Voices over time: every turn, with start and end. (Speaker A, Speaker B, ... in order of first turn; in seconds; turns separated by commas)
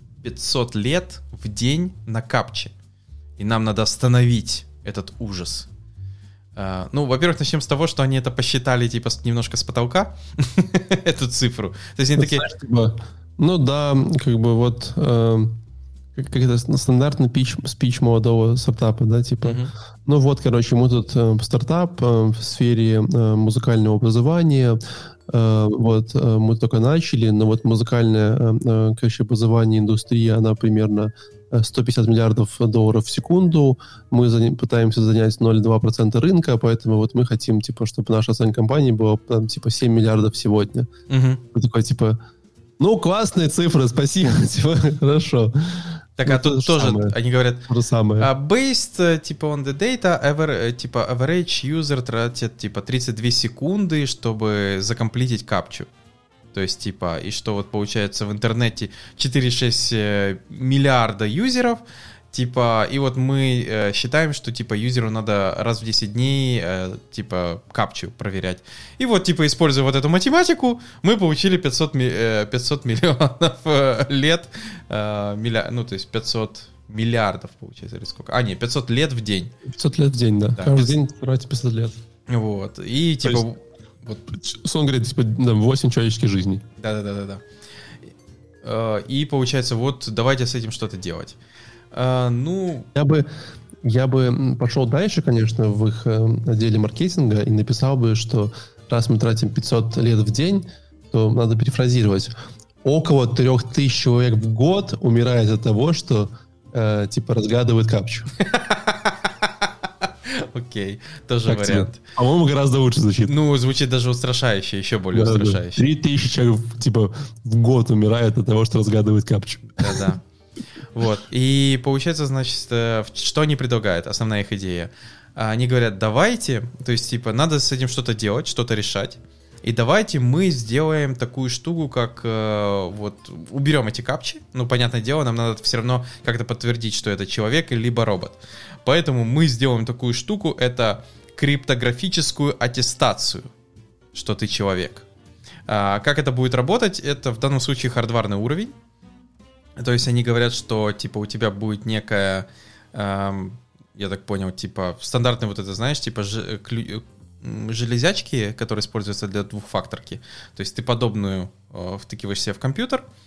Speaker A: 0.2-2.7, Speaker A: 3.4-5.7, Speaker A: 6.6-12.5, Speaker B: 12.2-15.6, Speaker B: 16.1-40.9, Speaker A: 19.4-19.7, Speaker A: 41.1-41.4, Speaker B: 41.5-42.2, Speaker B: 42.8-47.1, Speaker A: 46.2-47.7, Speaker B: 47.7-48.3, Speaker A: 48.2-55.9, Speaker A: 56.5-61.8, Speaker A: 62.3-79.5, Speaker B: 79.7-82.0, Speaker A: 80.6-81.0, Speaker A: 82.3-84.2, Speaker B: 84.3-86.6, Speaker A: 86.8-87.4, Speaker A: 88.6-91.4, Speaker A: 91.9-92.9, Speaker B: 93.0-93.3, Speaker B: 93.8-102.3, Speaker B: 102.8-108.3, Speaker A: 108.4-109.7, Speaker A: 110.3-112.0, Speaker B: 111.5-113.3, Speaker A: 113.2-115.8, Speaker B: 115.1-120.1, Speaker A: 119.8-120.2, Speaker A: 120.9-143.5, Speaker A: 144.1-145.1, Speaker A: 145.7-148.7, Speaker A: 149.8-163.0